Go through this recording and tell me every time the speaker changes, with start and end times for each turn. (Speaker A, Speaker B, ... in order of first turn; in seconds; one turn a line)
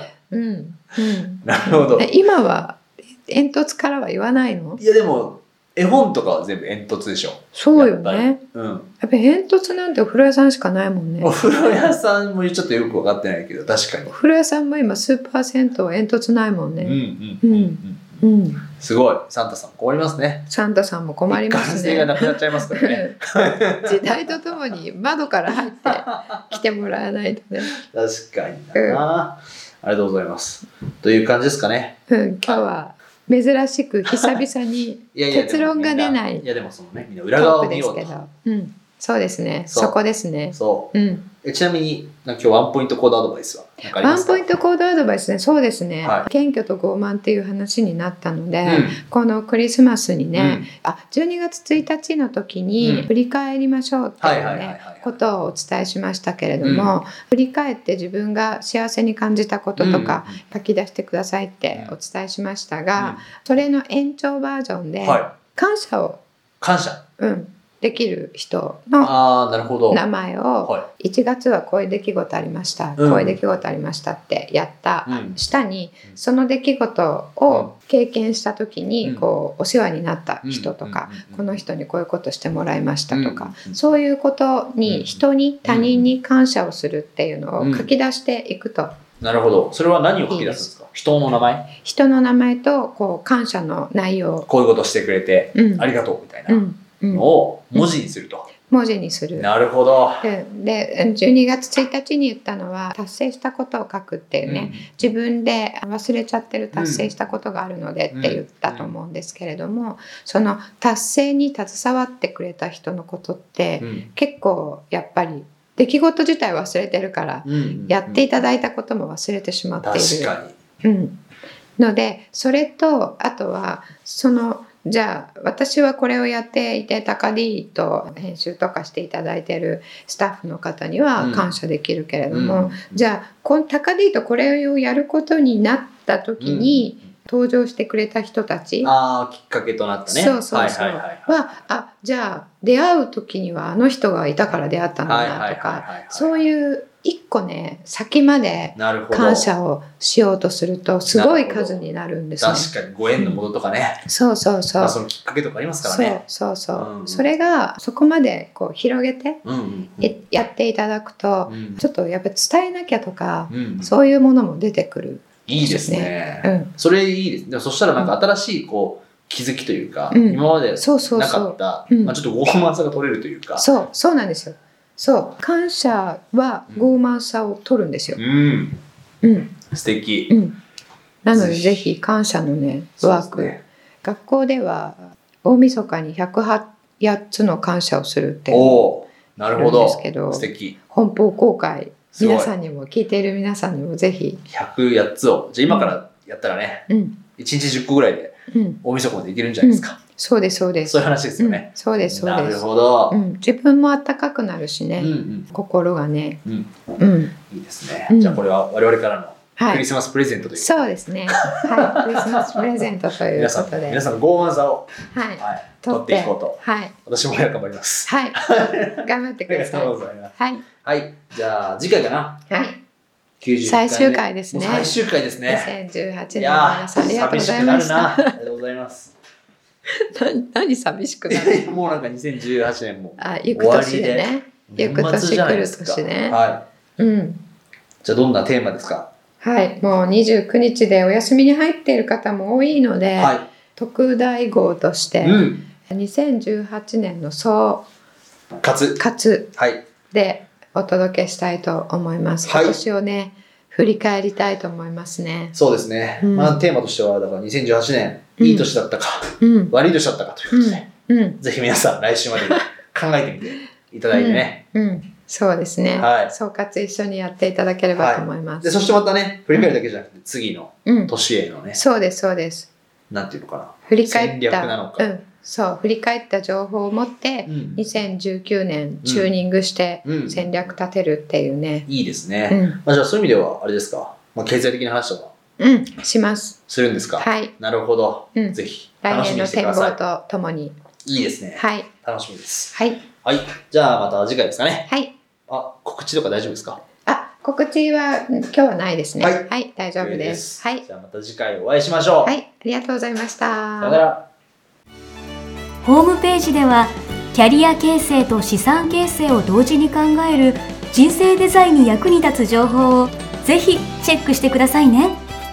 Speaker A: 0.3-4.8
Speaker B: 1.4-2.1
Speaker B: 4.8-8.9
Speaker A: 7.5-8.4
Speaker A: 9.0-11.9
Speaker B: 11.2-14.1
Speaker A: 14.1-18.6
Speaker B: 16.8-20.5
Speaker A: 20.5-27.7
Speaker B: 21.3-24.6
Speaker B: 25.8-26.6
Speaker B: 27.7-32.6
Speaker A: 28.7-29.0
Speaker A: 32.1-36.5
Speaker B: 35.1-38.1
Speaker A: 37.4-41.3
Speaker B: 39.7-40.0
Speaker B: 40.5-44.5
Speaker A: 43.9-66.2
Speaker B: 46.0-46.3
Speaker B: 48.6-49.0
Speaker B: 50.3-50.7
Speaker B: 52.8-53.1
Speaker B: 54.2-55.2
Speaker B: 56.6-56.9
Speaker B: 59.8-60.4
Speaker B: 63.0-63.2
Speaker B: 65.0-65.3
Speaker B: 66.6-67.0
Speaker A: 67.2-69.1
Speaker B: 69.0-70.0
Speaker A: 69.9-89.0
Speaker B: 73.0-73.4
Speaker B: 75.0-75.4
Speaker B: 80.4-81.6
Speaker B: 83.1-83.8
Speaker B: 84.8-86.1
Speaker B: 87.6-87.9
Speaker B: 89.2-91.7
Speaker A: 90.3-90.7
Speaker A: 91.8-94.5
Speaker B: 94.5-98.5
Speaker A: 95.5-95.9
Speaker A: 96.5-97.9
Speaker A: 98.7-99.5
Speaker B: 99.3-100.3
Speaker A: 100.2-121.2
Speaker B: 104.4-105.1
Speaker B: 106.7-107.1
Speaker B: 108.1-108.9
Speaker B: 113.8-114.1
Speaker B: 117.4-118.4
Speaker B: 119.8-120.5
Speaker A: 121.8-138.9
Speaker B: 131.2-131.5
Speaker B: 132.3-133.0
Speaker B: 136.4-136.9
Speaker B: 138.8-141.6
Speaker A: 140.1-153.4
Speaker B: 145.0-146.5
Speaker B: 148.8-149.5
Speaker B: 151.1-151.8
Speaker B: 152.4-154.0
Speaker A: 154.1-155.0
Speaker B: 154.8-156.2
Speaker A: 155.8-159.4
Speaker B: 156.7-157.3
Speaker B: 159.4-160.1
Speaker A: 160.0-166.7
Speaker B: 161.5-161.8
Speaker B: 163.5-163.9
Speaker B: 165.5-173.7
Speaker A: 170.1-172.2
Speaker A: 173.6-178.2
Speaker B: 178.1-178.8
Speaker A: 179.2-179.6
Speaker B: 179.7-180.3
Speaker A: 180.3-180.6
Speaker A: 181.2-188.9
Speaker B: 181.3-181.9
Speaker B: 183.0-183.6
Speaker B: 188.5-190.8
Speaker A: 189.5-194.4
Speaker B: 192.1-192.5
Speaker B: 194.5-200.0
Speaker A: 195.7-195.9
Speaker A: 196.9-197.2
Speaker A: 198.5-198.8
Speaker A: 199.6-206.4
Speaker B: 200.8-203.2
Speaker B: 205.0-205.5
Speaker B: 206.4-206.7
Speaker A: 207.0-207.3
Speaker B: 207.5-222.4
Speaker A: 208.1-208.4
Speaker A: 209.6-209.8
Speaker A: 210.6-214.0
Speaker A: 215.1-216.9
Speaker A: 218.1-218.4
Speaker A: 218.9-220.6
Speaker A: 222.5-222.8
Speaker B: 223.4-225.7
Speaker A: 223.6-224.9
Speaker A: 225.5-228.3
Speaker B: 226.3-229.1
Speaker A: 229.9-231.7
Speaker B: 231.3-236.6
Speaker A: 233.2-236.4
Speaker A: 237.0-237.4
Speaker B: 238.0-239.1
Speaker A: 239.4-247.9
Speaker B: 243.2-243.5
Speaker B: 245.2-245.7
Speaker B: 248.6-249.0
Speaker A: 249.0-249.5
Speaker B: 249.5-249.8
Speaker A: 250.1-255.6
Speaker B: 252.4-252.8
Speaker B: 255.5-260.9
Speaker A: 256.2-256.6
Speaker A: 258.4-258.7
Speaker A: 259.4-259.7
Speaker A: 260.5-261.4
Speaker B: 261.4-264.6
Speaker A: 264.1-268.8
Speaker B: 265.9-266.3
Speaker B: 267.9-271.8
Speaker A: 269.5-269.8
Speaker A: 270.8-271.1
Speaker A: 271.7-272.7
Speaker B: 273.1-275.1
Speaker A: 273.9-281.9
Speaker B: 277.4-277.8
Speaker B: 279.0-279.3
Speaker B: 280.0-280.7
Speaker B: 281.9-285.3
Speaker A: 282.5-282.8
Speaker A: 285.6-286.6
Speaker B: 286.7-290.0
Speaker A: 287.2-287.5
Speaker A: 288.3-290.8
Speaker B: 291.0-294.9
Speaker A: 291.6-291.9
Speaker A: 292.7-293.0
Speaker A: 294.9-295.1
Speaker B: 295.5-296.8
Speaker A: 297.0-300.8
Speaker B: 299.2-302.3
Speaker A: 302.2-304.0
Speaker B: 303.8-304.2
Speaker C: 305.8-315.2